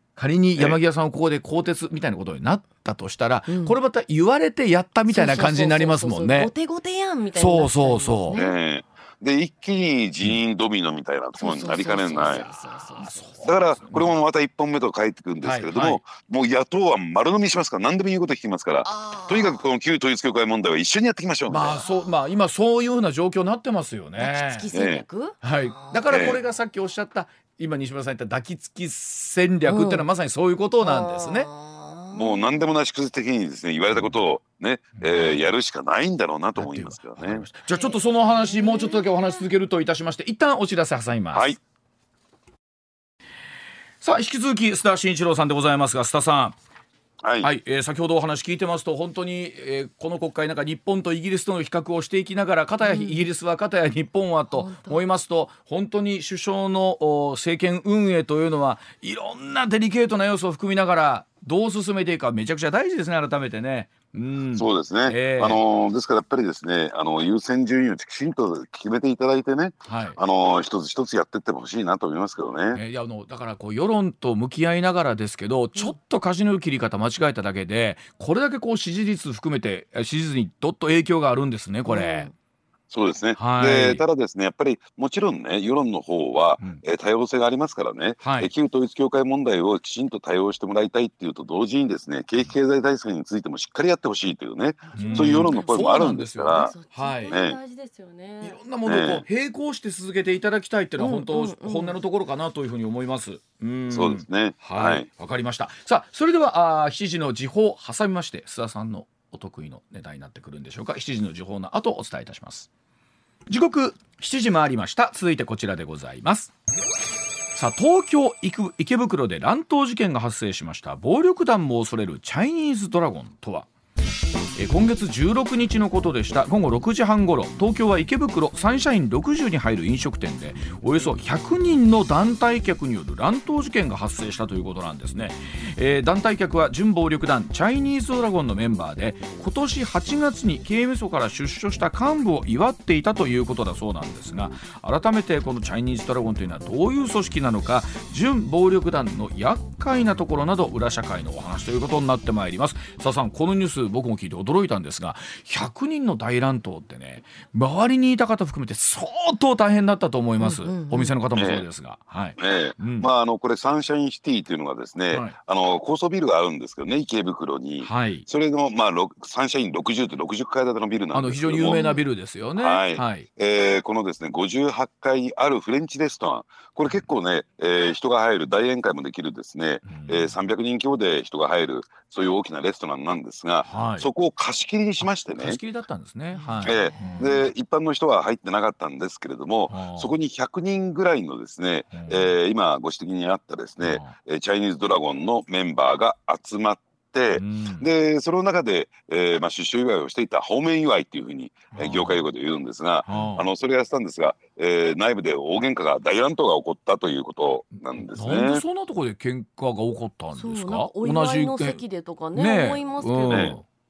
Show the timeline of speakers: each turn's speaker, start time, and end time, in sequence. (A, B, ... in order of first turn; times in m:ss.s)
0:00.2-0:06.5 A
0:03.5-0:03.8 B
0:05.1-0:08.6 B
0:07.3-0:08.4 A
0:08.3-0:12.5 C
0:11.4-0:13.5 B
0:13.0-0:14.2 A
0:13.4-0:21.8 C
0:15.4-0:16.0 A
0:18.9-0:19.6 B
0:21.5-0:24.7 A
0:24.2-0:26.0 B
0:24.7-0:25.0 C
0:25.4-0:31.5 A
0:26.1-0:26.4 C
0:29.6-0:30.0 B
0:30.8-0:32.7 B
0:32.1-0:37.4 C
0:33.9-0:34.2 A
0:35.0-0:35.5 A
0:36.6-0:41.6 A
0:37.7-0:39.5 B
0:44.0-0:46.6 A
0:47.2-0:47.5 C
0:47.4-1:05.6 A
0:52.8-0:53.2 B
0:54.5-0:55.0 B
1:04.6-1:12.8 C
1:09.8-1:10.2 A
1:12.7-1:22.3 A
1:21.9-1:22.3 B
1:22.9-1:36.7 C
1:23.4-1:24.0 A
1:28.2-1:28.5 A
1:34.8-1:38.6 B
1:35.0-1:37.4 A
1:37.3-1:37.6 C
1:38.4-1:52.7 A
1:38.8-1:39.2 C
1:41.0-1:42.0 B
1:43.9-1:45.1 C
1:53.5-1:56.5 A
1:57.6-2:03.7 A
2:04.6-2:43.1 A
2:40.4-2:41.1 B
2:41.4-2:41.7 C
2:42.4-2:51.8 C
2:45.1-2:45.4 A
2:47.8-2:48.3 A
2:51.1-2:53.3 A
2:51.6-2:52.0 B
2:52.6-3:05.6 C
2:59.9-3:00.4 A
3:03.6-3:04.1 A
3:05.0-3:07.3 A
3:06.3-3:07.5 B
3:06.6-3:28.6 C
3:09.7-3:10.1 A
3:11.9-3:12.3 A
3:13.8-3:14.2 A
3:17.3-3:17.9 A
3:21.7-3:22.2 A
3:23.1-3:23.5 A
3:28.1-3:31.8 A
3:30.4-3:33.6 B
3:32.3-3:33.6 A
3:33.3-3:33.6 C